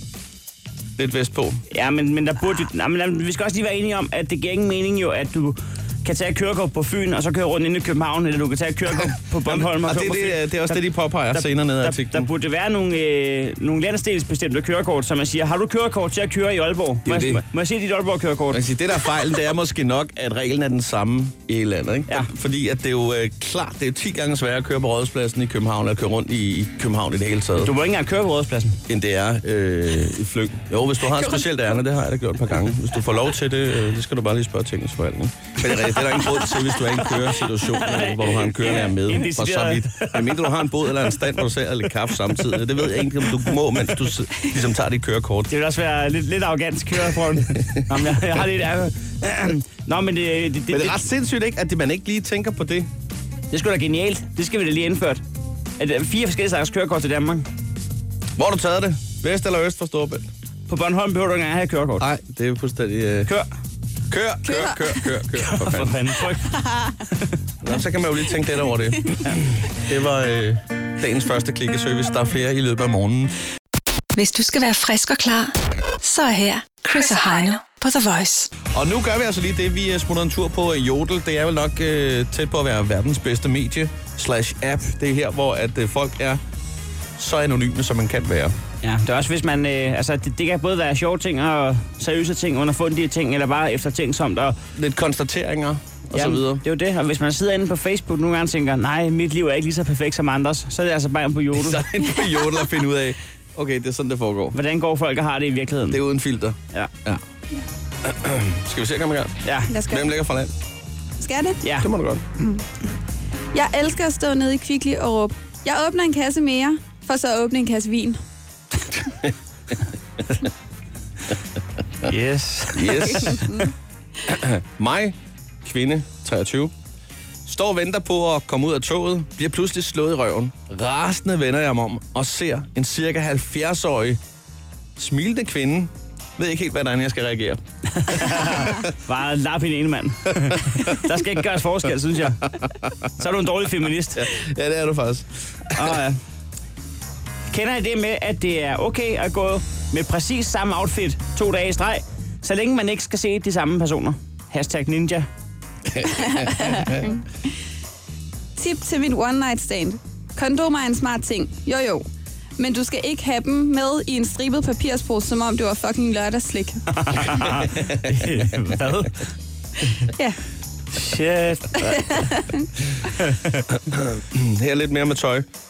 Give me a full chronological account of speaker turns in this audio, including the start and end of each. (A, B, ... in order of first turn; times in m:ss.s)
0:01.0-0:01.6 A
0:01.7-0:18.6 B
0:09.0-0:12.3 A
0:17.0-0:17.4 A
0:18.5-0:27.7 A
0:27.6-0:28.8 B
0:28.9-0:45.5 A
0:35.6-0:41.1 B
0:42.3-0:44.1 B
0:45.5-0:51.0 B
0:47.5-0:48.0 A
0:50.7-0:52.9 A
0:53.5-0:55.2 B
0:55.8-0:57.4 B
0:58.4-1:00.3 A
1:00.7-1:02.0 B
1:02.0-1:03.3 A
1:04.1-1:06.0 A
1:04.4-1:04.9 C
1:05.3-1:07.3 B
1:06.5-1:06.9 C
1:07.6-1:13.3 A
1:14.1-1:18.5 D
1:18.7-1:26.4 A
1:27.2-1:28.5 A
1:28.8-1:34.6 B
1:34.7-1:36.6 A
1:36.1-1:41.8 B
1:41.5-1:44.6 A
1:44.5-1:46.0 B
1:45.9-1:47.2 A
1:48.0-1:50.5 A
1:49.4-1:49.7 B
1:49.7-1:50.1 C
1:51.2-1:51.6 C
1:51.6-1:51.9 B
1:51.8-1:52.2 A
1:53.5-1:58.2 C
2:00.2-2:00.4 A
2:02.0-2:03.5 B
2:02.7-2:03.5 A
2:03.2-2:03.7 C
2:04.2-2:06.7 A
2:07.4-2:14.2 A
2:15.0-2:18.8 A
2:17.9-2:22.6 B
2:20.5-2:20.8 A
2:23.1-2:24.3 B
2:24.1-2:26.0 A
2:25.7-2:26.2 B
2:27.5-2:35.3 B
2:35.9-2:36.9 A
2:36.0-2:37.2 C
2:38.6-2:42.0 C
2:42.6-2:46.8 C
2:46.9-2:49.3 B
2:47.6-2:48.1 A
2:50.1-2:50.4 C
2:50.9-2:52.3 B
2:51.9-2:52.6 C
2:53.2-2:53.6 B
2:53.8-2:55.5 A